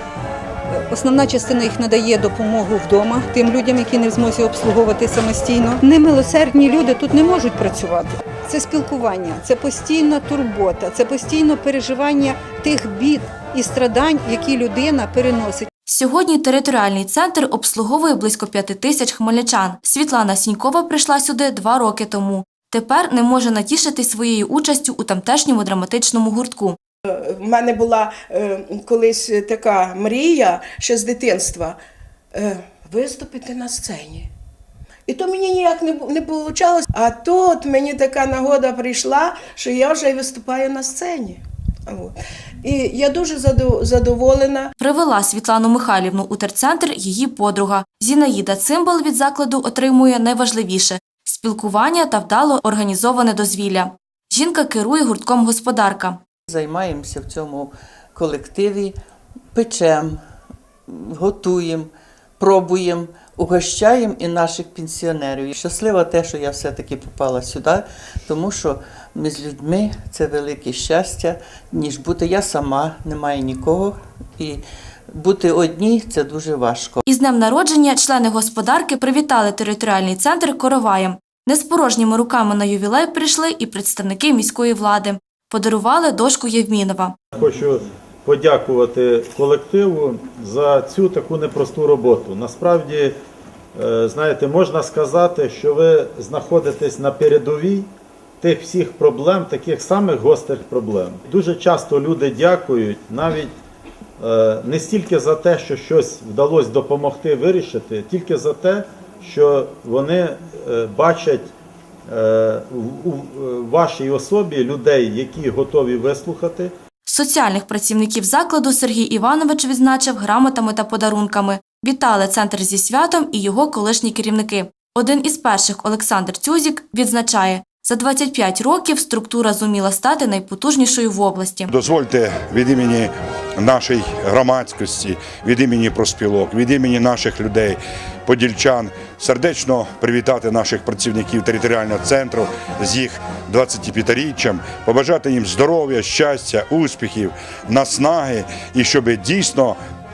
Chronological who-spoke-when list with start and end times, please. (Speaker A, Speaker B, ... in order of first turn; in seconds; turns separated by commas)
Speaker A: 0.9-15.7, Speaker B: 15.9-26.8, Speaker C: 27.1-31.8, Speaker C: 32.3-34.3, Speaker C: 35.1-44.7, Speaker B: 44.8-56.2, Speaker D: 56.5-59.0, Speaker D: 59.5-60.2, Speaker D: 60.9-77.0, Speaker B: 77.1-87.2, Speaker E: 87.3-93.2, Speaker E: 93.8-97.9, Speaker E: 98.4-103.5, Speaker E: 104.2-111.5, Speaker E: 112.1-116.7, Speaker B: 117.1-131.7, Speaker F: 131.7-149.8